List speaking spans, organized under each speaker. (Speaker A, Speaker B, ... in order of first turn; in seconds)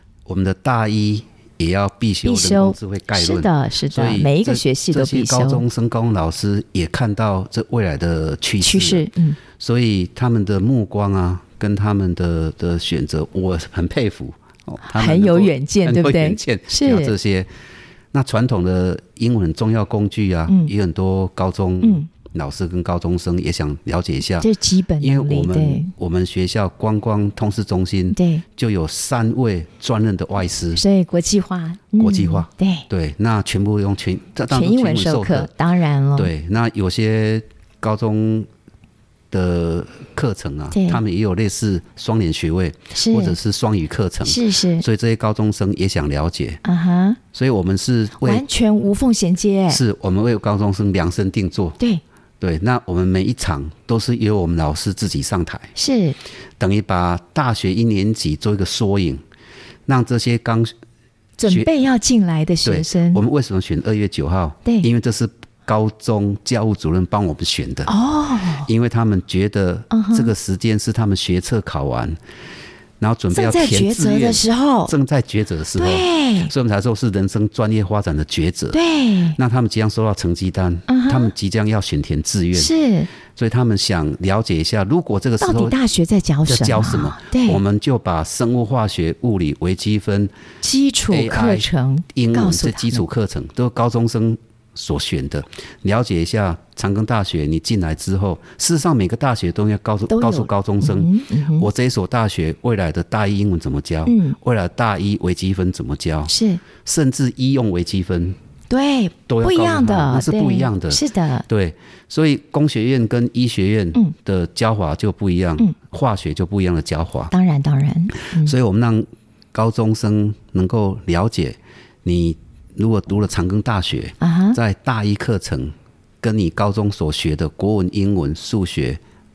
Speaker A: 0.2-17.5, 18.1-24.5, 25.0-30.8, 32.0-35.5, 36.1-38.5, 39.3-46.6, 47.3-48.4, 49.7-51.8, 52.4-55.7, 56.6-59.2, 59.9-60.7, 62.6-67.9, 68.7-72.2, 73.0-78.8, 79.3-82.7, 83.3-85.8, 86.5-90.3, 91.1-106.3, 106.8-108.4, 109.3-117.3, 118.3-129.0
Speaker B: 2.2-5.6, 8.6-9.4, 14.8-17.1, 20.5-20.7, 21.8-22.1, 24.4-25.9, 28.1-28.4, 30.7-32.9, 34.5-36.3, 40.7-41.0, 42.9-43.4, 44.2-44.8, 46.6-47.2, 48.2-49.8, 55.8-56.2, 61.4-63.2, 67.9-68.7, 69.9-70.3, 73.3-74.9, 75.8-76.5, 78.7-79.4, 80.9-81.3, 82.5-83.1, 85.4-87.6, 90.6-93.0, 100.1-101.7, 104.0-104.4, 106.3-106.6, 108.7-111.5, 117.3-118.5, 124.2-124.6